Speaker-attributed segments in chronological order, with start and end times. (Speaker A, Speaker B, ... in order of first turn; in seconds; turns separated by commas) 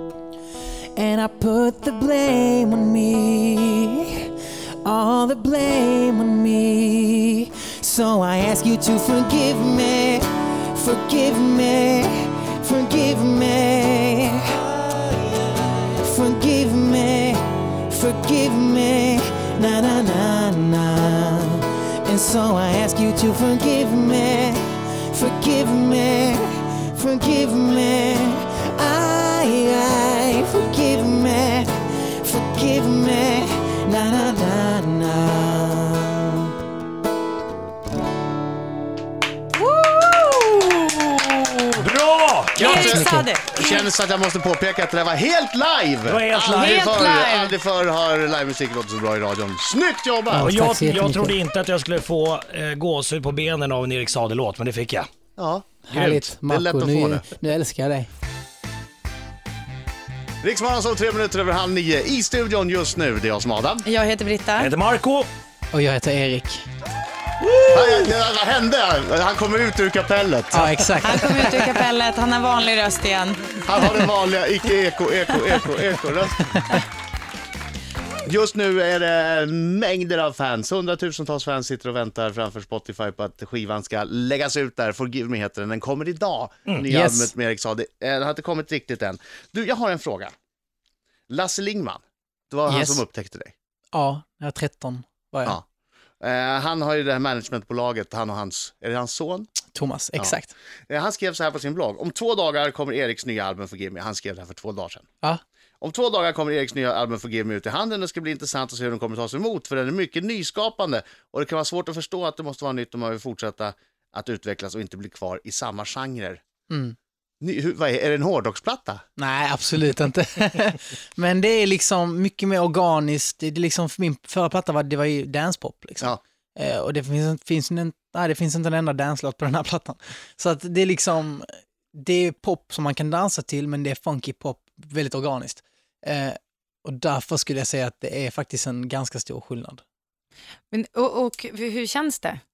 Speaker A: 0.9-4.3, Speaker A: 4.8-14.7, Speaker A: 15.4-36.5, Speaker B: 39.5-41.8, Speaker C: 41.8-43.0, Speaker B: 42.6-43.9, Speaker D: 42.6-50.5, Speaker E: 42.7-43.3, Speaker C: 46.0-47.0, Speaker B: 46.5-47.5, Speaker E: 50.3-51.4, Speaker C: 50.4-55.1, Speaker D: 55.4-57.2, Speaker E: 55.9-58.1, Speaker D: 60.4-63.9, Speaker B: 63.8-64.7, Speaker C: 64.6-65.3, Speaker E: 65.7-66.7, Speaker D: 67.7-70.9, Speaker E: 70.5-71.5, Speaker B: 71.0-73.6, Speaker D: 73.6-76.7, Speaker D: 78.2-90.3, Speaker E: 86.9-87.3, Speaker D: 91.3-93.5, Speaker E: 92.7-93.0, Speaker E: 93.9-95.6, Speaker D: 96.2-99.5, Speaker E: 99.7-100.5, Speaker D: 100.9-105.1, Speaker D: 105.8-116.4, Speaker E: 116.7-117.0, Speaker D: 117.4-119.0, Speaker E: 119.2-139.8, Speaker B: 140.7-142.4